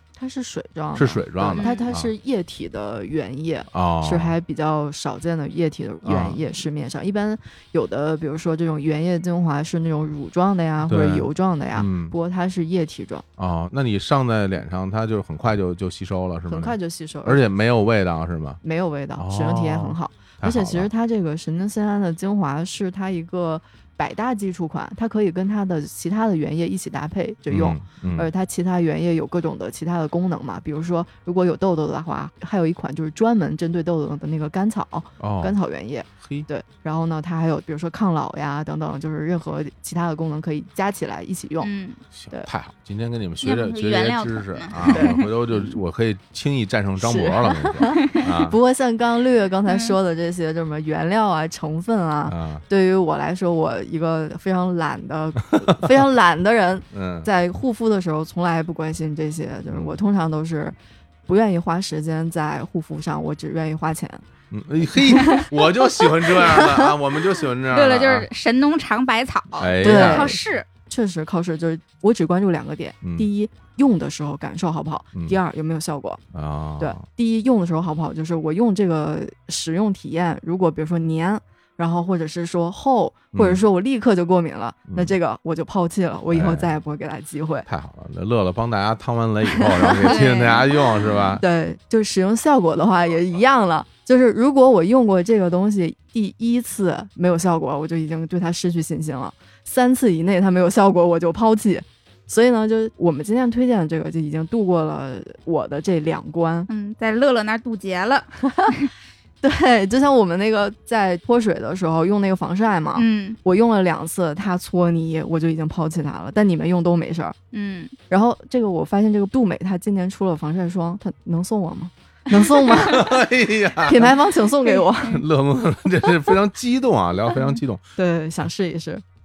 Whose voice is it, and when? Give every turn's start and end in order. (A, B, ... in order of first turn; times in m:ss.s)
0:00.2-0:13.2 A
0:01.0-0:02.1 B
0:01.6-0:01.9 C
0:03.7-0:04.4 B
0:06.0-0:06.4 B
0:10.8-0:12.1 B
0:13.4-0:18.6 B
0:16.5-0:17.4 A
0:18.6-0:41.7 A
0:19.2-0:20.9 B
0:27.5-0:28.3 B
0:35.2-0:35.6 B
0:41.6-0:42.0 C
0:42.1-0:48.6 B
0:43.4-0:45.8 C
0:44.9-0:45.2 A
0:47.0-1:00.8 A
0:49.7-0:50.0 C
0:52.3-0:52.6 B
0:56.9-0:57.3 B
0:59.7-1:00.0 B
1:01.3-1:04.2 A
1:04.5-1:08.3 B
1:05.0-1:05.4 A
1:06.4-1:06.9 A
1:07.7-1:10.7 C
1:09.6-1:10.3 B
1:09.8-1:16.2 A
1:13.0-1:13.3 B
1:16.3-1:17.0 B
1:16.8-1:27.7 A
1:23.3-1:23.6 B
1:24.9-1:25.2 B
1:26.3-1:26.7 B
1:27.7-1:31.4 B
1:29.5-1:30.5 A
1:30.1-1:30.7 C
1:31.1-1:46.7 A
1:46.7-1:48.9 C
1:48.4-1:48.7 A
1:49.4-1:57.4 A
1:53.0-1:53.4 C
1:57.5-1:57.9 C
1:58.1-2:03.1 A
2:02.7-2:04.2 B
2:03.8-2:05.2 A
2:05.0-2:07.8 B
2:08.0-2:09.0 A